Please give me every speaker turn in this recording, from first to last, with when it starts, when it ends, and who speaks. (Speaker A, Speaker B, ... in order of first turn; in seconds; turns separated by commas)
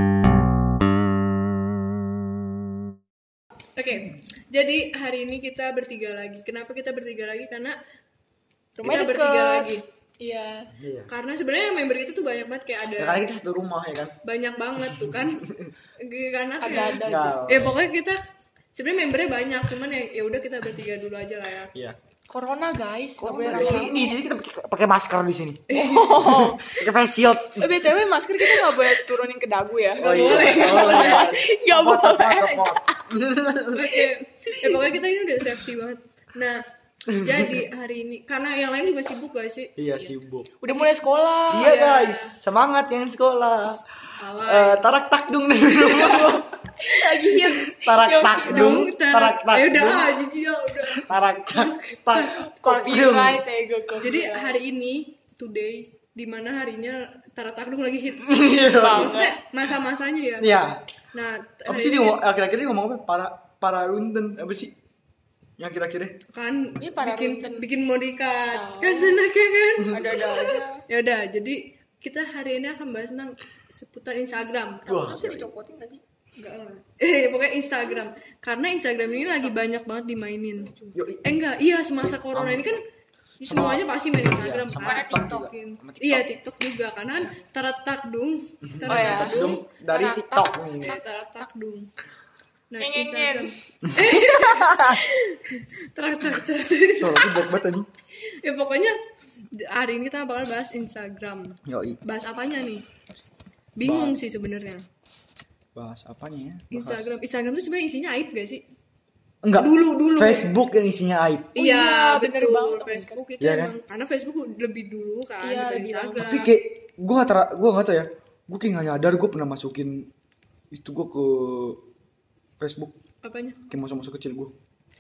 Speaker A: 3.8-7.8, Speaker B: 8.8-10.7, Speaker A: 8.8-9.8, Speaker C: 10.8-11.1, Speaker A: 11.1-13.2, Speaker C: 13.0-14.1, Speaker A: 14.2-15.4, Speaker C: 14.8-15.7, Speaker A: 16.0-18.2, Speaker B: 16.6-17.5, Speaker C: 17.0-17.8, Speaker A: 18.8-21.7, Speaker B: 22.3-24.1, Speaker C: 23.2-27.7, Speaker A: 23.4-24.1, Speaker A: 25.7-26.4, Speaker B: 25.7-26.8, Speaker B: 27.6-33.0, Speaker C: 30.0-34.0, Speaker A: 30.0-31.3, Speaker A: 33.7-36.6, Speaker B: 34.5-34.8, Speaker C: 37.1-37.6, Speaker A: 37.2-39.7, Speaker C: 39.8-40.5, Speaker B: 40.6-41.7, Speaker C: 41.5-43.8, Speaker A: 41.6-42.4, Speaker A: 44.2-44.9, Speaker C: 44.4-46.6, Speaker A: 45.8-46.4, Speaker B: 46.2-48.9, Speaker C: 47.4-50.1, Speaker A: 48.4-52.4, Speaker C: 50.9-53.4, Speaker B: 52.2-54.6, Speaker A: 54.0-60.5, Speaker C: 58.2-59.2, Speaker B: 58.8-59.4, Speaker C: 60.4-60.8, Speaker A: 61.1-62.2, Speaker C: 61.7-64.7, Speaker C: 65.6-66.2, Speaker A: 66.3-75.0, Speaker B: 66.8-67.7, Speaker B: 68.5-69.2, Speaker C: 69.8-70.1, Speaker B: 69.9-70.8, Speaker C: 74.9-75.5, Speaker B: 74.9-76.0, Speaker A: 76.4-80.7, Speaker B: 79.0-79.5, Speaker B: 80.6-81.0, Speaker C: 80.9-81.3, Speaker A: 81.2-82.8, Speaker C: 82.0-82.8, Speaker A: 83.4-89.6, Speaker C: 83.4-86.3, Speaker B: 84.8-85.5, Speaker C: 88.7-91.0, Speaker B: 88.9-90.6, Speaker A: 90.8-91.9, Speaker A: 92.7-97.5, Speaker B: 92.8-93.5, Speaker C: 93.8-95.0, Speaker C: 97.0-97.9, Speaker A: 98.2-99.0, Speaker A: 99.5-102.9, Speaker C: 101.7-102.0, Speaker A: 103.8-104.8, Speaker C: 103.8-104.2, Speaker C: 105.8-107.1, Speaker A: 106.7-108.6, Speaker C: 109.4-111.5, Speaker A: 109.6-110.5, Speaker A: 111.5-116.5, Speaker B: 111.6-113.2, Speaker C: 113.4-113.7, Speaker B: 115.4-116.2, Speaker C: 116.2-120.1, Speaker C: 120.7-121.8, Speaker C: 122.6-122.9, Speaker A: 123.2-123.6, Speaker C: 123.7-124.5